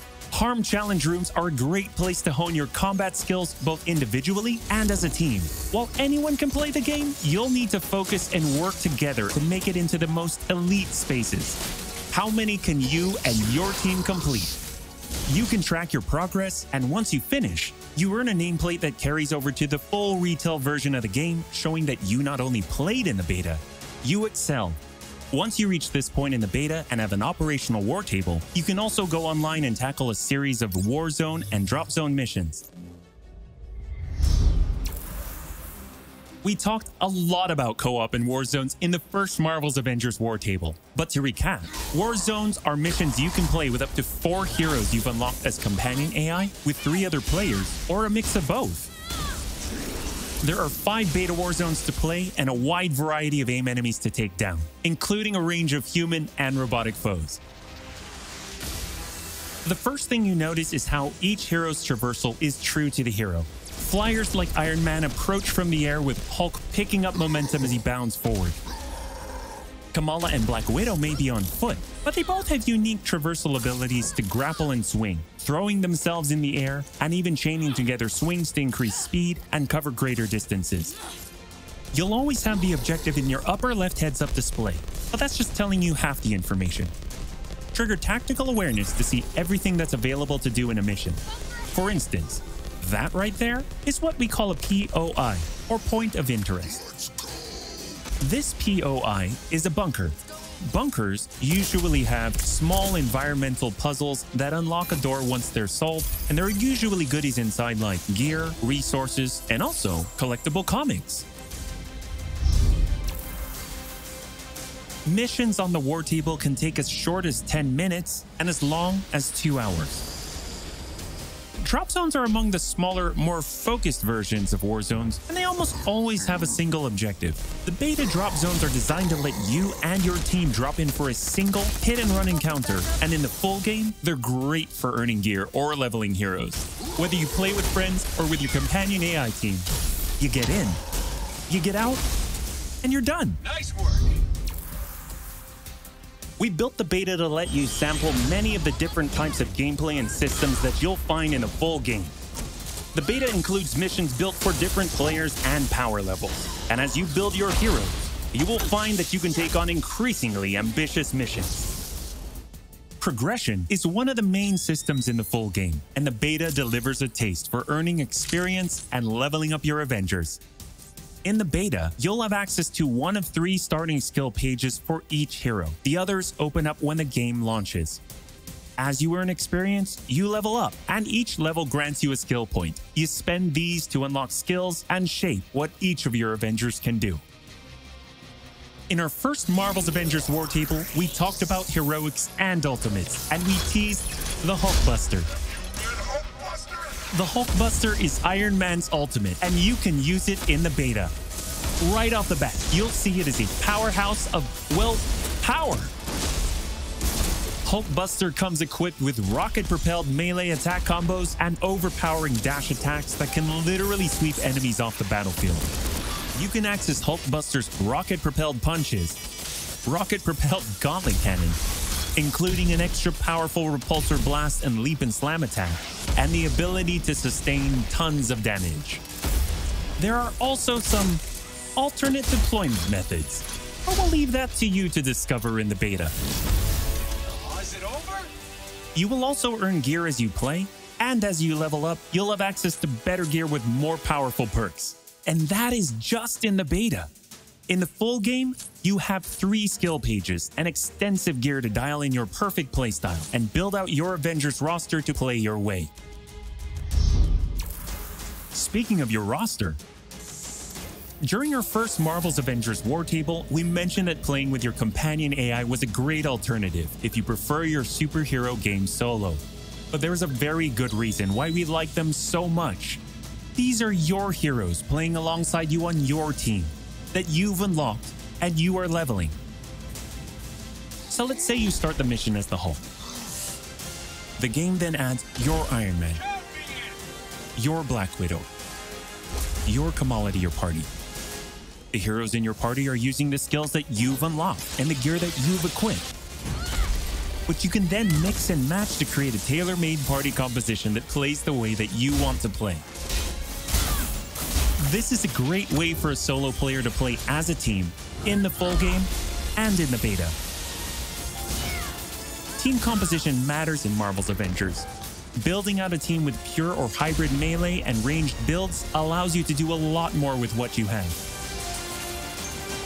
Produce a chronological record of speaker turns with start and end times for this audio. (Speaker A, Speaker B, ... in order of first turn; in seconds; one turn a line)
Speaker A: 0.3-11.6
Speaker A: 12.1-14.6
Speaker A: 15.3-24.8
Speaker A: 25.3-32.7
Speaker A: 36.4-48.9
Speaker A: 50.4-57.4
Speaker A: 59.6-68.6
Speaker A: 69.9-81.0
Speaker A: 81.9-86.9
Speaker A: 87.7-96.8
Speaker A: 98.2-111.3
Speaker A: 115.1-120.0
Speaker A: 121.6-140.8
Speaker A: 141.5-142.0
Speaker A: 142.8-143.4
Speaker A: 146.4-152.2
Speaker A: 152.9-161.7
Speaker A: 163.0-170.4
Speaker A: 171.2-178.0
Speaker A: 178.8-187.2
Speaker A: 188.9-195.3
Speaker A: 197.1-201.1
Speaker A: 201.8-205.9
Speaker A: 207.7-215.7
Speaker A: 216.3-219.2
Speaker A: 219.8-221.6
Speaker A: 222.2-229.0
Speaker A: 230.0-231.2
Speaker A: 231.8-236.1
Speaker A: 238.9-247.1
Speaker A: 247.7-255.9
Speaker A: 258.5-259.8
Speaker A: 261.2-273.0
Speaker A: 273.6-279.4
Speaker A: 281.1-282.8
Speaker A: 284.4-286.2
Speaker A: 287.6-288.5
Speaker A: 289.6-290.9
Speaker A: 291.9-296.1
Speaker A: 297.5-302.9
Speaker A: 304.8-310.4
Speaker A: 312.6-321.2